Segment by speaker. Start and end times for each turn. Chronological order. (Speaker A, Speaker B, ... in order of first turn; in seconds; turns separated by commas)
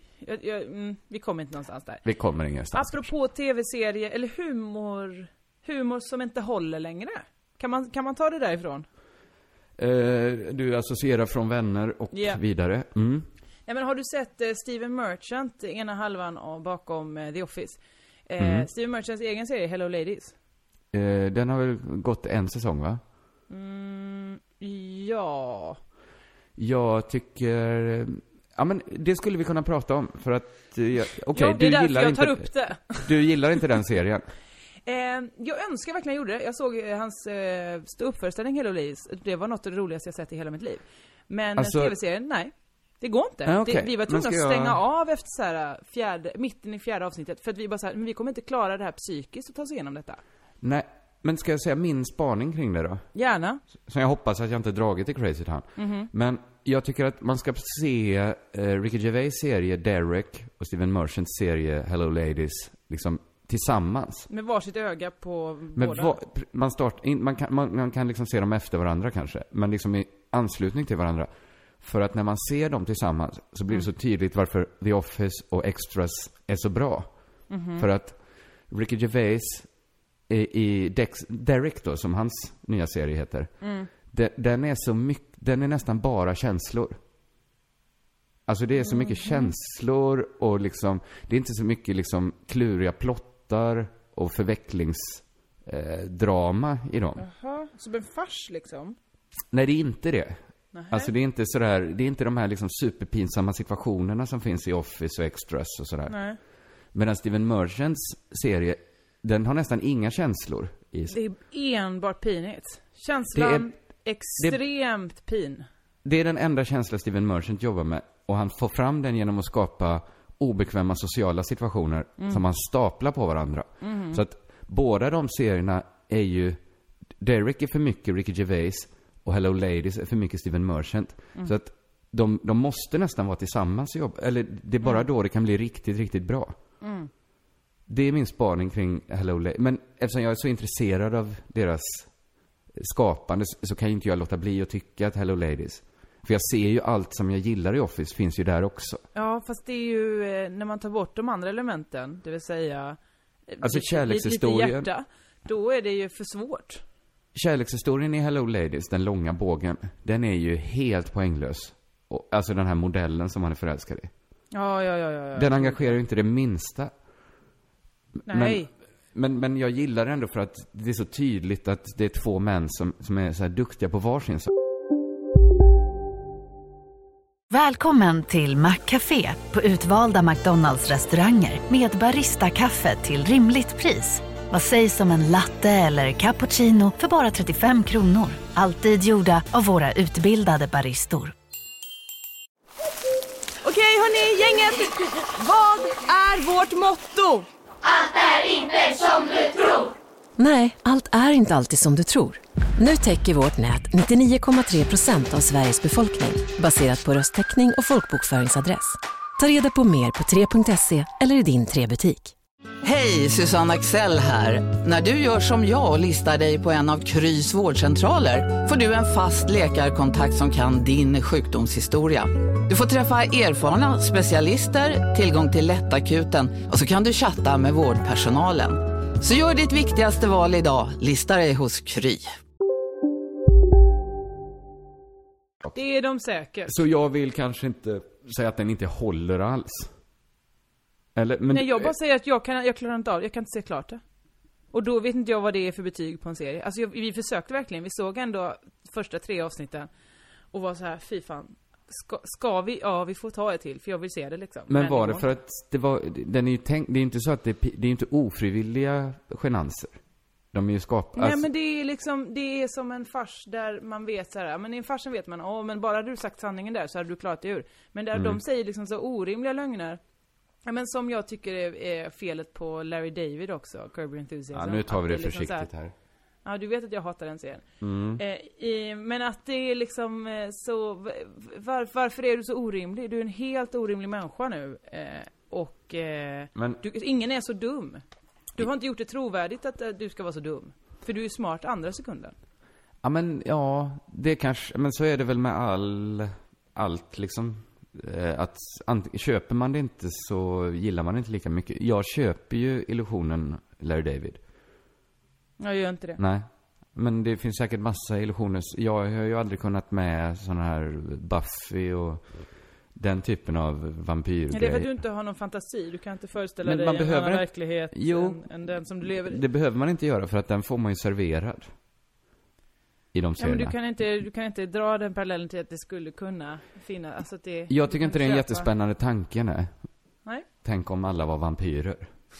Speaker A: 0.2-2.0, Speaker B: 2.0-3.1, Speaker A: 2.7-8.8, Speaker B: 9.8-13.3, Speaker A: 12.1-12.4, Speaker A: 13.7-20.3, Speaker B: 18.4-18.7, Speaker B: 20.9-23.0, Speaker A: 23.5-25.8, Speaker B: 26.6-34.2, Speaker A: 31.3-33.1, Speaker A: 34.9-50.2, Speaker B: 41.6-41.9, Speaker B: 43.5-44.8, Speaker B: 50.6-53.0, Speaker A: 53.1-53.6, Speaker B: 53.9-64.3, Speaker A: 55.8-56.1, Speaker A: 64.3-66.2, Speaker B: 65.8-71.3, Speaker B: 71.8-77.1, Speaker A: 77.5-77.8, Speaker B: 77.8-78.2, Speaker B: 78.7-79.7, Speaker B: 80.3-83.5, Speaker A: 83.6-83.9, Speaker B: 84.1-87.0, Speaker B: 88.5-97.2, Speaker A: 88.8-89.5, Speaker A: 97.2-99.0, Speaker B: 99.5-100.4, Speaker A: 100.7-101.1, Speaker B: 100.9-106.2, Speaker A: 106.1-106.4, Speaker B: 106.9-111.2, Speaker A: 111.1-115.7, Speaker B: 113.3-113.7, Speaker B: 116.0-126.6, Speaker A: 123.8-124.2, Speaker B: 127.2-136.6, Speaker A: 136.8-137.1, Speaker B: 137.9-142.1, Speaker B: 142.8-149.0, Speaker A: 149.1-156.8, Speaker B: 153.6-154.9, Speaker B: 157.3-164.1, Speaker A: 164.5-165.9, Speaker B: 165.3-166.9, Speaker B: 168.2-174.5, Speaker A: 168.3-168.7, Speaker C: 177.5-191.3, Speaker A: 193.6-197.5, Speaker D: 198.6-199.2, Speaker E: 200.4-212.3, Speaker D: 212.8-232.3, Speaker A: 235.7-236.8, Speaker B: 236.7-239.9, Speaker B: 241.2-241.9, Speaker A: 241.5-244.0, Speaker A: 244.7-249.9, Speaker A: 250.5-255.3, Speaker B: 254.7-260.0, Speaker B: 260.5-261.5, Speaker A: 261.1-270.0, Speaker B: 268.1-268.4, Speaker A: 270.6-275.7, Speaker B: 274.5-275.9, Speaker A: 276.4-277.6, Speaker B: 277.8-278.2, Speaker A: 278.2-288.0, Speaker B: 286.5-286.8, Speaker A: 288.5-292.3, Speaker B: 293.0-304.4, Speaker A: 305.6-306.2, Speaker B: 306.2-312.2, Speaker B: 312.9-314.9, Speaker A: 314.5-319.4, Speaker B: 316.6-318.4, Speaker B: 319.1-321.7, Speaker B: 323.1-323.7, Speaker A: 323.4-328.7, Speaker B: 327.7-329.7, Speaker B: 330.6-332.1